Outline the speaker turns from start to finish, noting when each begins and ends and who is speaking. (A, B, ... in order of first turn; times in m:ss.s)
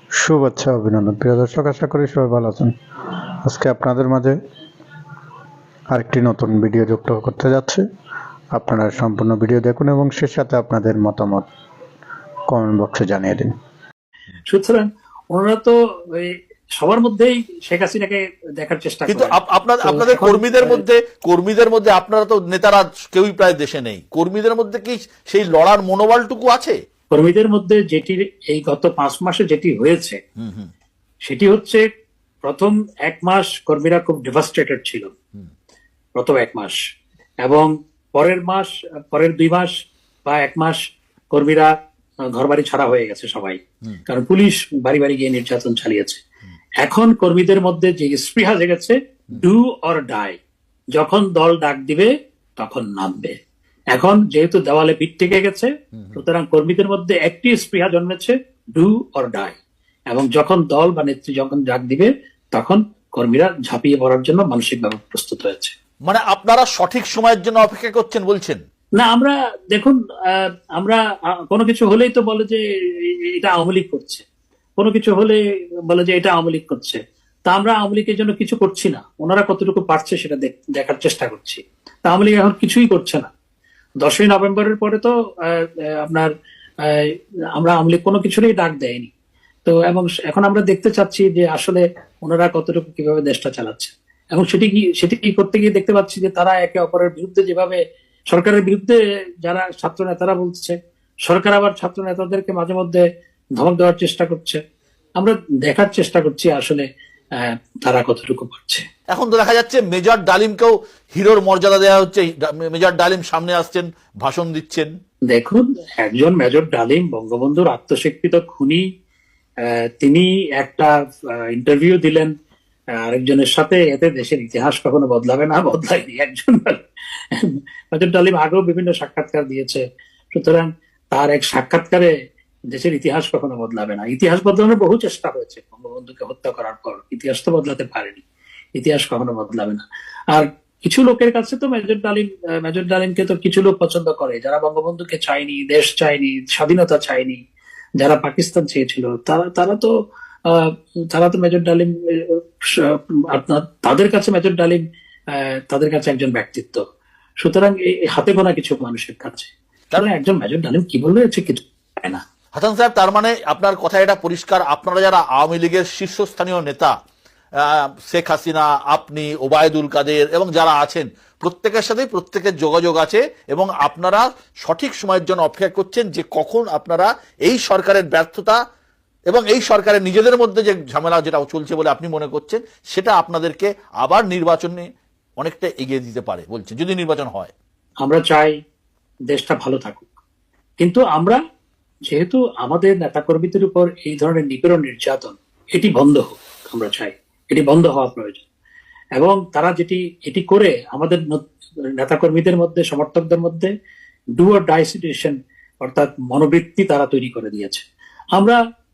0:00.2-0:02.7 A
0:03.4-0:04.4 A
0:05.9-0:07.8 A
0:08.5-0:11.5 A
0:12.5-0:13.5 A
0:14.5-0:20.8 B
0:19.1-0:26.8 C
0:27.1-0:30.2 B
0:30.4-0:30.7 C
0:31.3-0:31.8 B
0:32.4-0:35.1 B
0:36.2-0:36.8 B
0:37.4-0:39.7 B
0:40.2-0:40.8 B
0:41.3-0:41.7 B
0:42.3-0:46.2 B
0:46.8-0:50.4 B
0:51.0-0:53.4 B
0:53.9-0:59.6 B
1:00.1-1:05.7 B
1:06.1-1:08.6 C
1:09.0-1:14.2 B
1:14.8-1:15.4 B
1:15.9-1:23.3 B
1:24.0-1:26.3 B
1:26.8-1:29.1 B
1:29.6-1:37.8 B
1:38.3-1:43.0 B
1:43.6-1:44.6 B
1:45.2-1:46.9 B
1:47.4-1:48.8 B
1:49.1-1:54.9 C
1:55.3-1:58.8 B
1:59.6-2:02.3 B
2:03.0-2:12.1 B
2:12.7-2:18.2 B
2:18.8-2:27.4 B
2:28.0-2:29.9 B
2:30.5-2:34.8 B
2:35.3-2:36.8 B
2:37.4-2:42.2 B
2:42.6-2:46.9 C
2:47.6-2:58.6 C
2:59.3-3:04.9 C
3:05.4-3:07.5 C
3:08.0-3:08.5 B
3:09.3-3:10.1 B
3:10.8-3:11.4 B
3:12.1-3:18.4 B
3:19.2-3:23.7 B
3:24.4-3:27.8 B